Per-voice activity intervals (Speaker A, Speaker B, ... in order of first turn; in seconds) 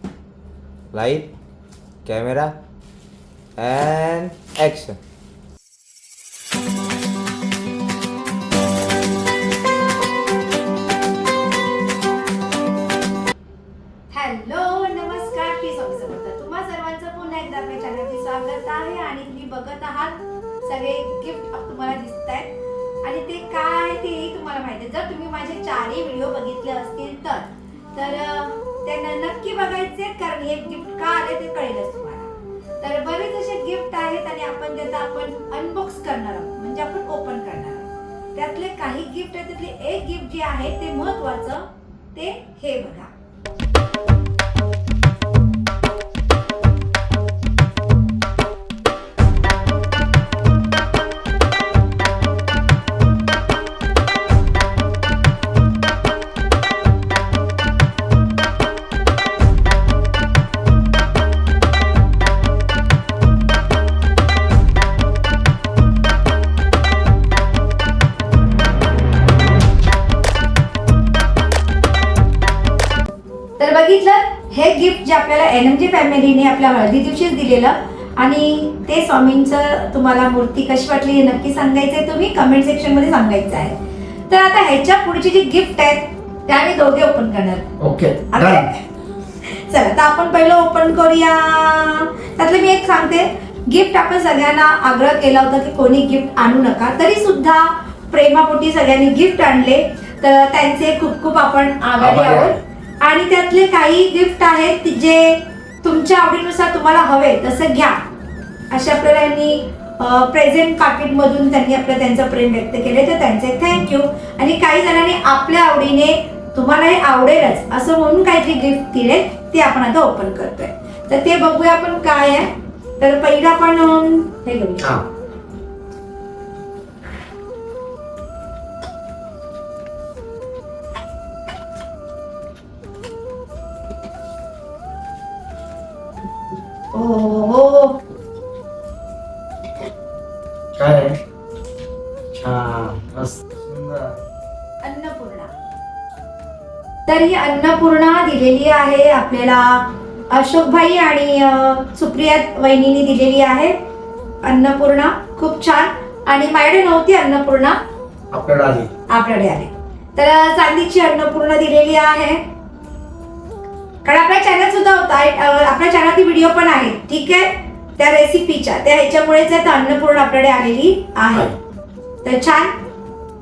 Speaker A: 0.9-1.3, 2.0-2.6, 3.5-5.0
Speaker B: 14.1-43.1, 73.6-83.8, 84.3-87.7, 88.3-88.8, 89.4-108.0, 108.7-122.5, 123.0-124.9, 136.9-138.0, 144.8-145.5, 147.1-153.7, 154.4-157.8, 159.1-162.4, 164.0-171.5, 172.2-172.7
Speaker C: 87.8-88.7, 102.0-102.6, 124.8-125.0, 140.8-141.2, 142.3-144.1, 158.3-158.9